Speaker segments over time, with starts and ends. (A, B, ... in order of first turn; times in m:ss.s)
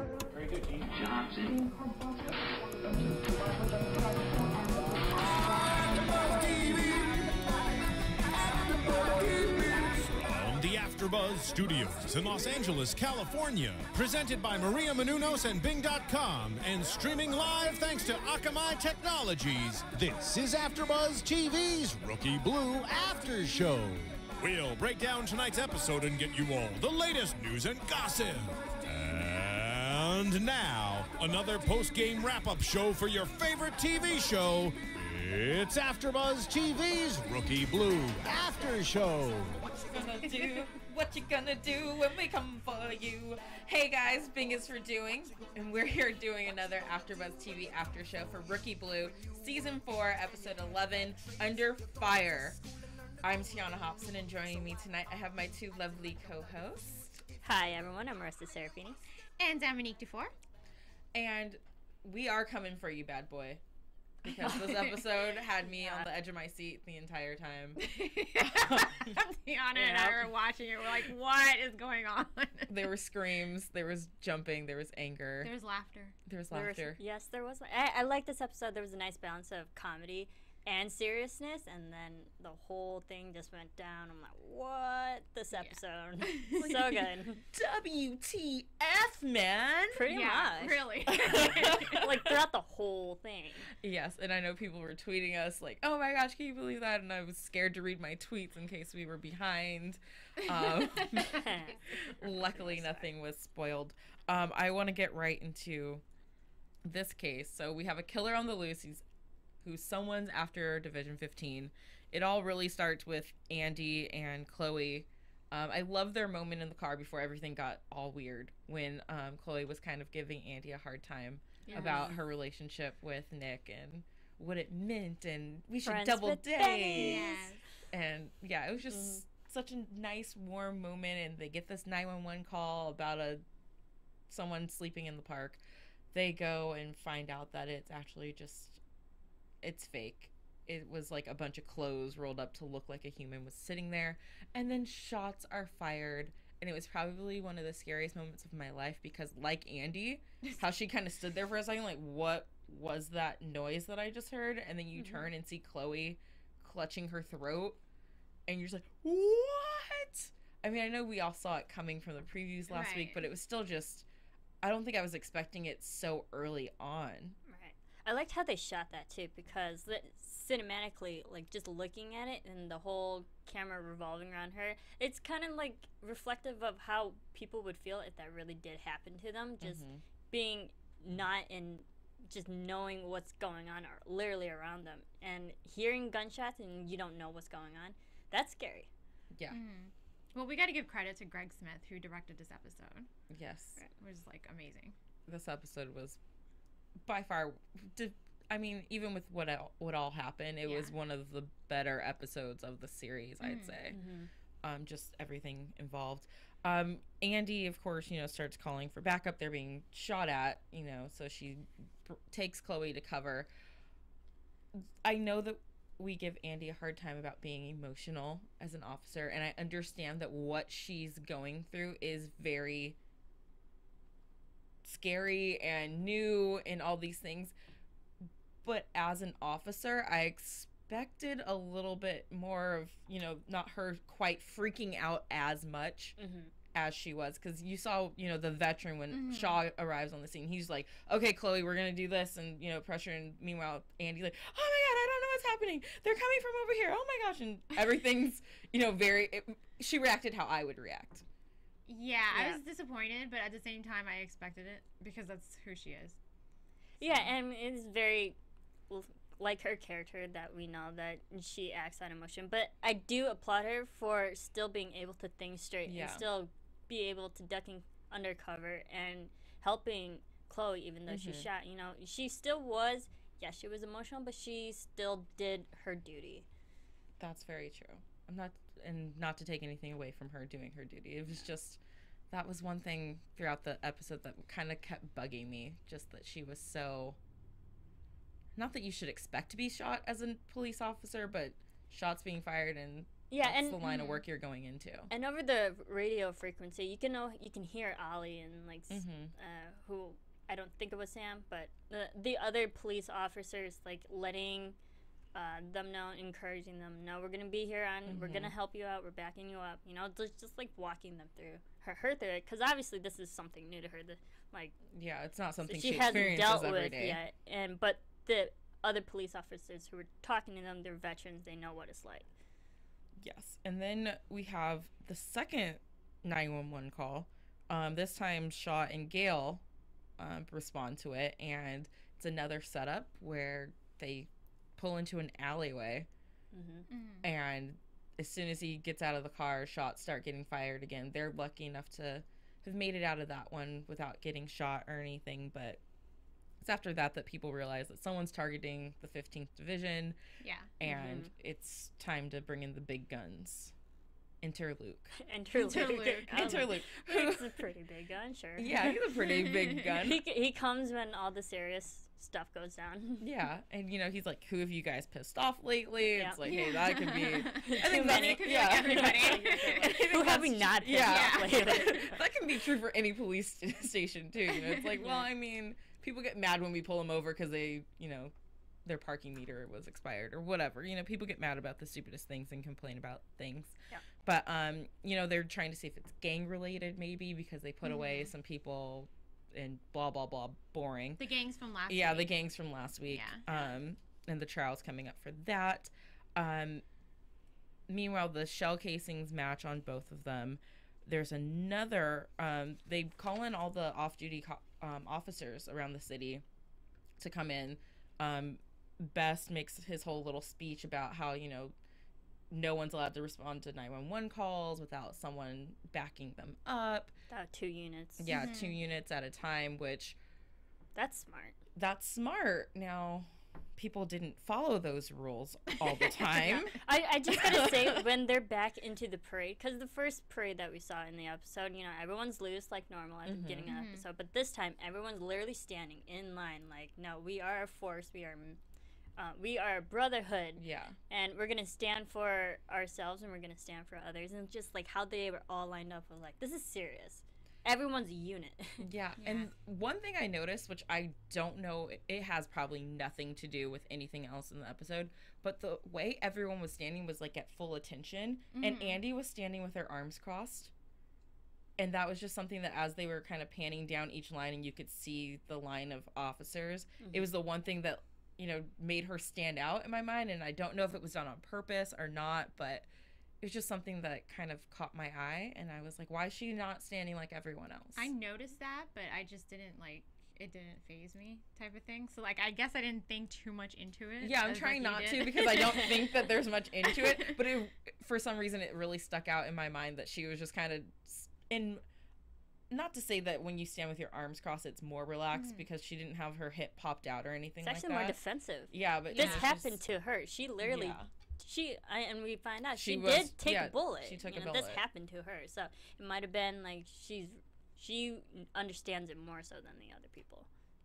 0:05.7-0:07.2 A
0:08.7-0:39.6 A
0:39.8-0:52.6 B
0:53.2-0:57.2 B
0:57.4-0:59.0 C
0:59.4-1:00.3 D
1:01.2-1:03.6 B
1:04.2-1:07.8 B
1:04.3-1:06.1 D
1:07.8-1:12.9 D
1:08.4-1:09.2 B
1:09.8-1:10.3 C
1:12.7-1:15.5 B
1:15.4-1:16.2 D
1:16.3-1:17.0 B
1:16.5-1:27.4 C
1:25.6-1:26.6 D
1:26.6-1:30.1 B
1:29.9-1:33.7 C
1:30.1-1:32.2 D
1:31.1-1:32.3 B
1:33.8-1:46.0 B
1:40.5-1:41.4 D
1:41.2-1:43.1 C
1:46.8-1:49.0 B
1:49.6-2:07.4 B
2:01.7-2:02.1 D
2:01.7-2:02.2 C
2:05.8-2:07.4 C
2:07.0-2:07.6 D
2:07.9-2:13.4 B
2:08.9-2:09.2 C
2:14.3-2:15.6 B
2:16.1-2:18.8 B
2:19.6-2:37.8 B
2:35.0-2:35.2 C
2:38.5-2:44.1 B
2:42.7-2:43.2 D
2:44.6-2:47.4 B
2:47.5-3:08.9 C
2:59.6-3:00.0 B
3:09.4-3:09.6 B
3:09.5-3:13.1 D
3:13.3-3:13.8 B
3:14.0-3:15.0 D
3:15.3-3:16.2 B
3:17.0-3:24.0 B
3:20.6-3:20.9 D
3:23.4-3:23.8 D
3:23.9-3:24.3 C
3:24.6-3:33.5 B
3:34.8-3:43.0 B
3:44.8-3:47.6 B
3:48.6-3:56.2 B
3:56.2-3:56.5 C
3:56.7-4:11.2 B
3:59.1-3:59.6 D
4:11.9-4:16.2 D
4:12.3-4:12.6 C
4:17.0-4:18.4 C
4:17.0-4:17.3 B
4:18.9-4:36.5 C
4:25.9-4:26.2 B
4:31.1-4:31.5 B
4:37.2-4:47.2 B
4:48.6-4:55.1 B
4:53.3-4:54.1 C
4:53.8-4:54.1 D
4:55.1-5:04.8 C
4:58.9-4:59.3 B
5:05.4-5:14.8 C
5:08.1-5:08.5 B
5:14.9-5:17.2 B
5:15.7-5:22.3 C
5:23.2-5:29.6 B
5:30.2-5:36.1 B
5:36.5-5:36.9 C
5:36.9-5:37.2 D
5:37.2-5:45.8 B
5:46.6-5:50.2 B
5:50.4-5:50.7 D
5:50.8-5:53.7 B
5:50.8-5:51.3 C
5:54.4-5:55.1 B
5:55.2-5:58.9 C
5:55.5-5:56.7 D
5:55.7-5:57.6 B
5:58.6-6:00.2 B
5:59.2-6:00.0 D
6:00.0-6:03.3 C
6:03.2-6:18.3 B
6:06.1-6:06.5 C
6:06.4-6:10.3 D
6:07.5-6:12.2 C
6:10.9-6:12.0 D
6:15.0-6:15.3 C
6:18.8-6:31.2 B
6:27.8-6:28.3 D
6:31.2-6:32.4 D
6:31.9-6:36.8 B
6:33.0-6:33.4 D
6:37.9-6:46.4 B
6:47.2-6:51.8 B
6:52.5-6:57.1 B
6:57.3-6:58.4 C
6:58.2-7:00.2 B
6:58.3-6:58.8 D
7:01.0-7:01.6 C
7:01.8-7:06.8 B
7:06.3-7:18.6 C
7:07.3-7:08.0 B
7:13.3-7:13.7 B
7:13.7-7:14.0 D
7:19.2-7:28.9 C
7:20.6-7:21.0 B
7:28.8-7:40.7 B
7:29.2-7:29.5 D
7:38.5-7:39.0 D
7:41.8-7:52.9 B
7:47.0-7:47.3 C
7:53.4-7:58.1 B
7:58.0-8:06.3 D
8:04.2-8:11.8 B
8:06.8-8:07.4 D
8:12.7-8:18.2 B
8:15.3-8:15.7 D
8:17.6-8:30.5 C
8:18.7-8:19.8 B
8:19.1-8:19.5 D
8:20.6-8:21.1 B
8:22.8-8:24.8 B